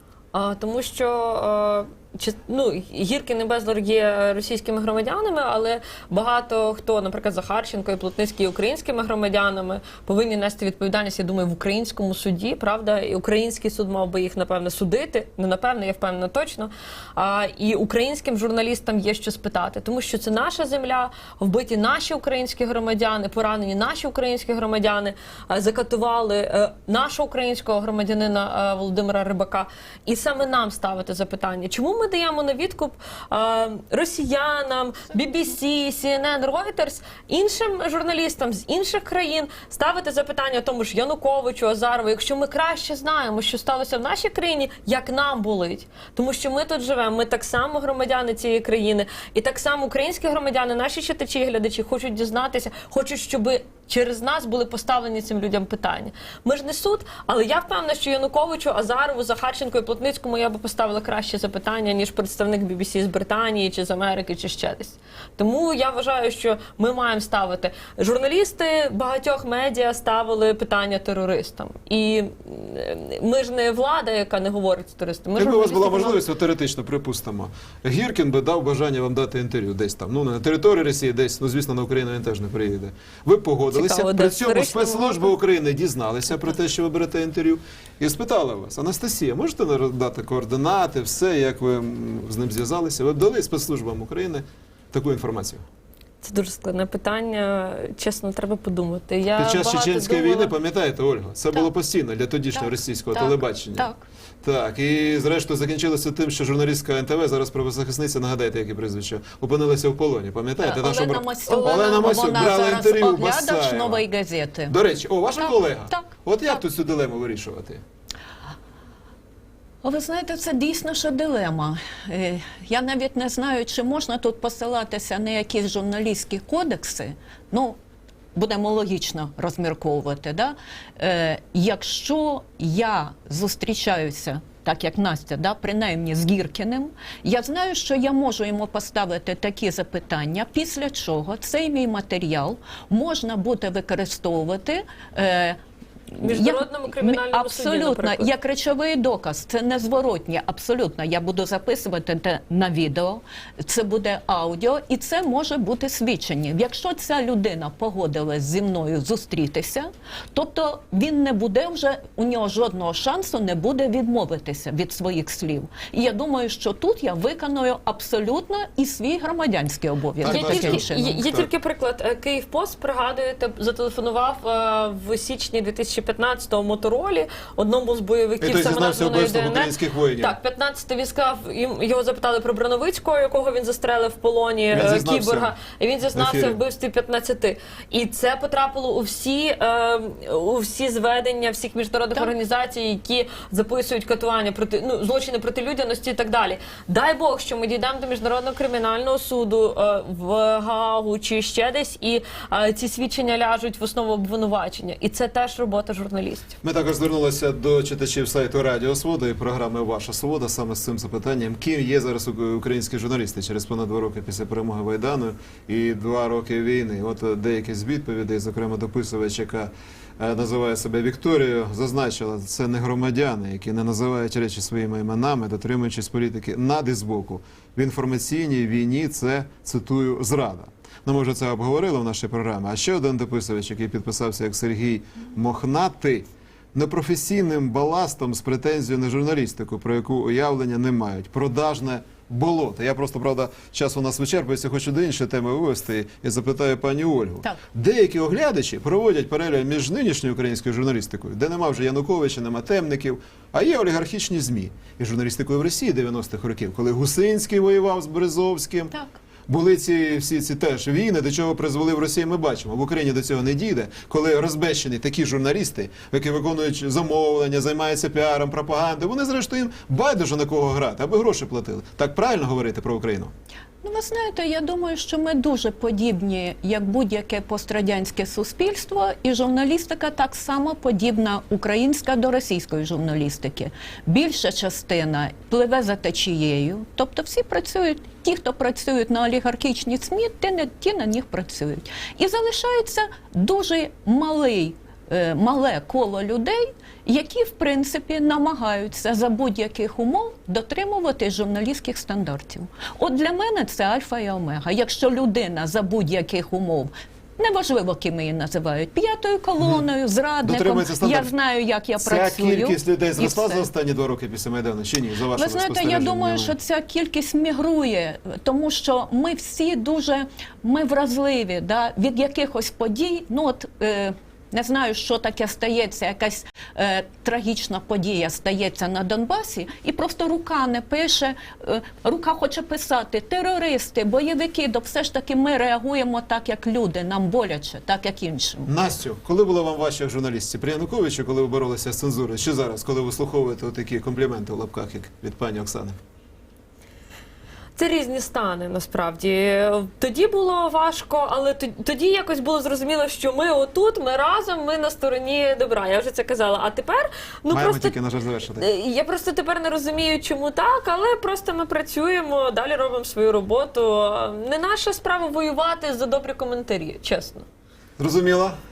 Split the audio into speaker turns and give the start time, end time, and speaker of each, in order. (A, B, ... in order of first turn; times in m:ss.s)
0:00.3-1:16.2 A
1:15.4-1:35.6 B
1:23.7-1:25.3 A
1:36.2-1:40.5 A
1:39.4-1:43.9 B
1:42.5-1:44.0 C
1:44.4-1:54.1 B
1:50.6-1:54.8 C
1:51.5-1:52.1 A
1:54.7-1:57.8 B
1:55.4-1:56.6 C
1:59.8-2:07.8 C
2:08.4-2:25.6 C
2:26.1-2:51.2 C
2:26.2-2:28.3 A
2:50.2-2:51.5 B
2:50.2-3:26.6 A
2:58.4-3:00.4 B
3:04.7-3:05.5 B
3:06.1-3:06.6 B
3:26.6-4:18.9 B
4:18.9-4:19.2 C
4:19.5-4:33.3 B
4:33.8-5:13.7 C
5:09.6-5:09.9 B
5:10.4-5:11.3 B
5:12.0-5:16.6 B
5:15.3-5:38.7 C
5:38.7-5:46.0 B
5:47.8-5:58.0 A
5:57.5-5:58.7 B
5:58.6-6:07.5 A
6:08.0-6:08.6 B